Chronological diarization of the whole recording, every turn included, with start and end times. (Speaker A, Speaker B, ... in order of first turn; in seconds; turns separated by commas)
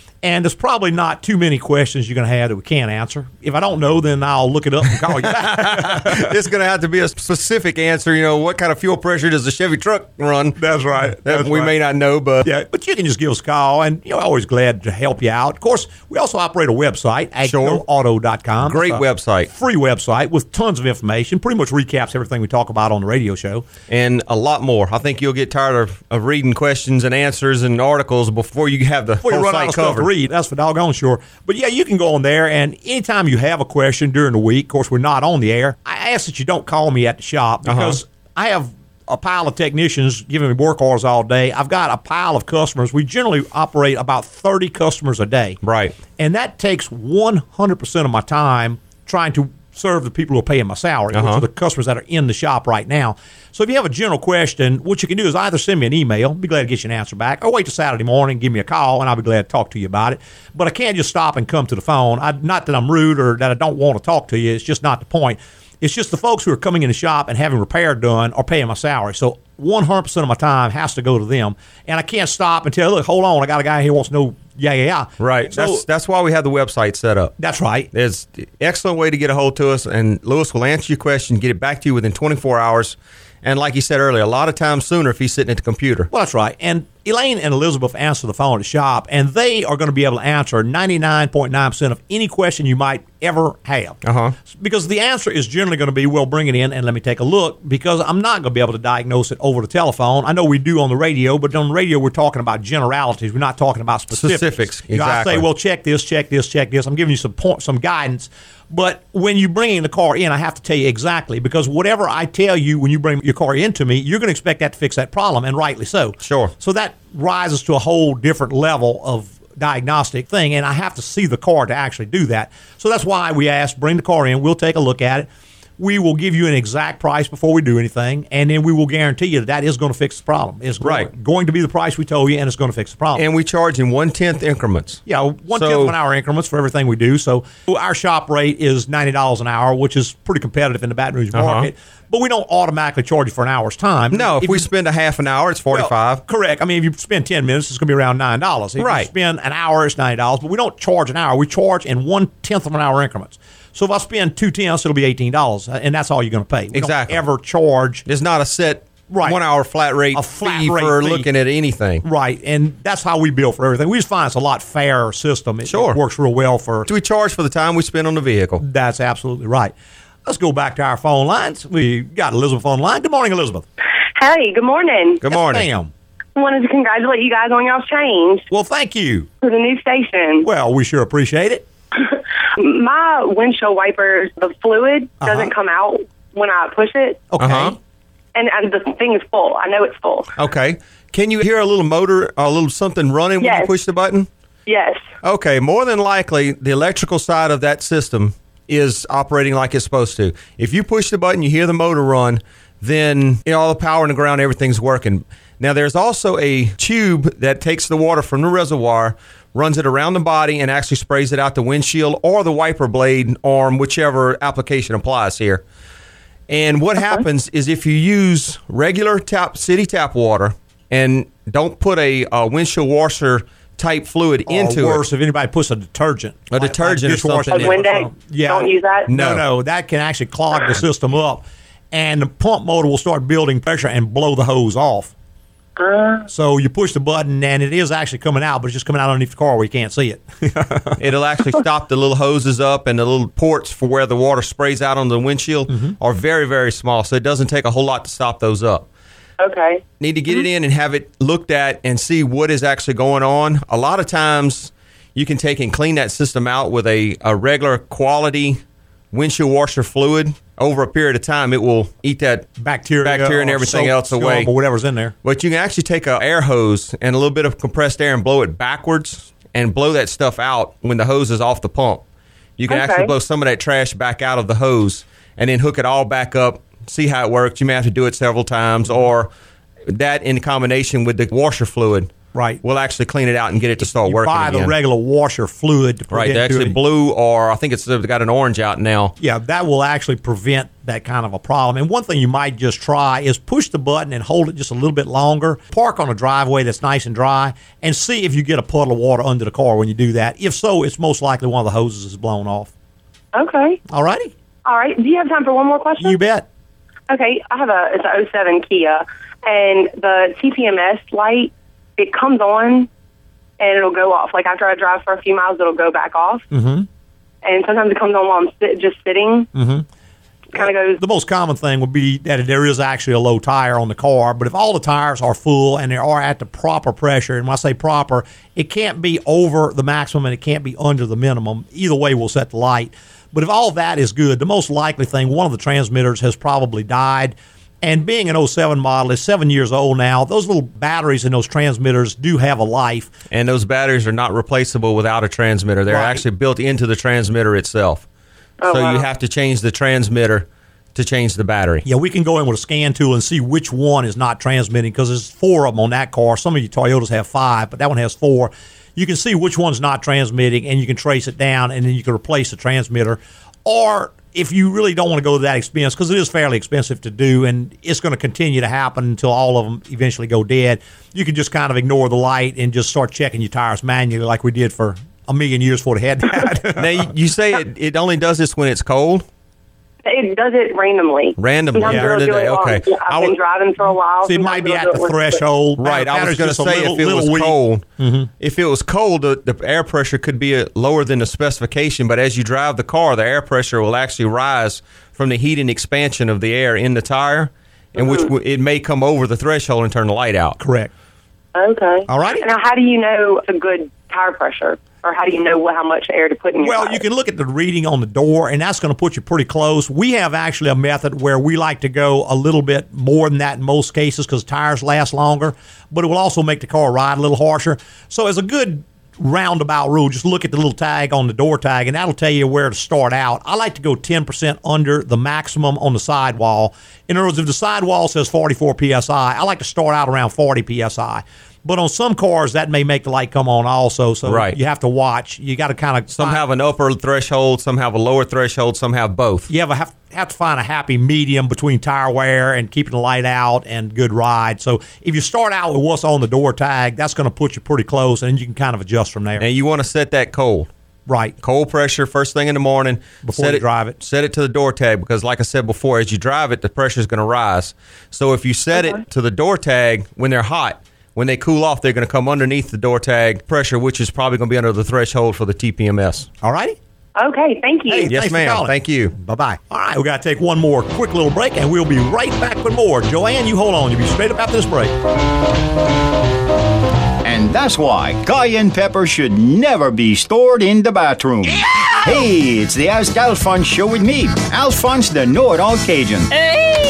Speaker A: 0.2-6.3, Speaker B: 5.2-10.6, Speaker A: 10.6-11.7, Speaker B: 11.2-12.5, Speaker A: 12.4-23.6, Speaker B: 17.4-17.8, Speaker B: 18.6-19.5, Speaker B: 23.9-30.1, Speaker A: 29.2-45.6, Speaker B: 37.6-38.0, Speaker B: 45.6-46.0, Speaker A: 46.2-75.8, Speaker B: 51.1-51.4, Speaker B: 75.2-77.3, Speaker A: 77.4-77.9, Speaker B: 77.9-86.1, Speaker A: 86.1-94.0, Speaker B: 94.0-94.3, Speaker A: 94.5-125.3, Speaker B: 104.1-105.5, Speaker B: 116.2-116.5, Speaker A: 125.8-133.2, Speaker B: 130.8-131.1, Speaker B: 133.2-135.0, Speaker A: 135.1-144.7, Speaker B: 135.5-135.9, Speaker B: 141.3-141.7, Speaker B: 144.1-146.2, Speaker A: 145.7-158.0, Speaker B: 148.8-149.1, Speaker B: 156.7-157.2, Speaker B: 158.1-162.0, Speaker A: 159.1-159.4, Speaker A: 160.1-161.3, Speaker A: 162.0-166.9, Speaker B: 165.7-166.0, Speaker B: 166.8-168.6, Speaker A: 168.6-169.7, Speaker A: 170.2-173.6, Speaker C: 174.2-175.2, Speaker B: 175.2-175.7, Speaker A: 175.3-175.9, Speaker C: 176.3-178.5, Speaker A: 178.5-179.3, Speaker C: 179.4-180.5, Speaker A: 180.4-181.6, Speaker C: 181.9-187.3, Speaker A: 185.2-185.5, Speaker A: 187.3-187.8, Speaker B: 187.4-187.7, Speaker C: 188.3-190.3, Speaker B: 190.4-194.3, Speaker C: 193.4-193.7, Speaker C: 194.7-195.0, Speaker B: 195.2-215.6, Speaker B: 216.5-225.0, Speaker A: 224.5-235.1, Speaker B: 226.5-227.9, Speaker C: 227.5-229.1, Speaker B: 229.1-229.4, Speaker C: 235.8-236.3, Speaker A: 236.3-241.0, Speaker B: 241.0-248.8, Speaker A: 245.7-245.9, Speaker C: 249.4-250.5, Speaker B: 250.0-258.6, Speaker B: 259.1-262.5, Speaker A: 262.6-265.1, Speaker B: 263.0-264.5, Speaker B: 265.2-272.0, Speaker B: 272.6-279.3, Speaker C: 272.7-273.1, Speaker B: 279.9-282.1, Speaker A: 282.3-282.6, Speaker B: 282.6-284.7, Speaker A: 283.8-286.8, Speaker B: 286.1-289.1, Speaker A: 289.2-302.7, Speaker C: 303.3-303.8, Speaker A: 303.9-304.3, Speaker C: 304.6-306.2, Speaker A: 306.0-306.4, Speaker C: 307.1-312.9, Speaker C: 313.6-316.4, Speaker A: 316.5-316.9, Speaker C: 317.4-319.5, Speaker A: 319.5-319.9, Speaker C: 320.5-321.0, Speaker A: 320.5-343.1, Speaker B: 343.3-348.0, Speaker A: 345.9-346.2, Speaker C: 348.6-349.1, Speaker B: 348.7-351.8, Speaker A: 351.8-377.1, Speaker B: 376.8-379.2, Speaker C: 380.0-385.4, Speaker B: 381.4-382.9, Speaker A: 381.8-382.2, Speaker A: 384.2-388.3, Speaker B: 385.8-387.8, Speaker B: 388.4-400.6, Speaker C: 397.9-398.3, Speaker A: 400.6-400.9, Speaker C: 401.5-407.0, Speaker A: 402.1-402.4, Speaker A: 406.6-436.4, Speaker B: 434.2-434.6, Speaker B: 436.1-439.5, Speaker A: 439.5-449.5, Speaker B: 449.4-450.7, Speaker A: 451.1-451.3, Speaker B: 451.4-466.3, Speaker A: 453.2-453.9, Speaker C: 458.7-459.0, Speaker A: 466.4-466.8, Speaker C: 467.1-468.1, Speaker A: 467.9-474.9, Speaker B: 468.0-469.1, Speaker D: 477.2-486.3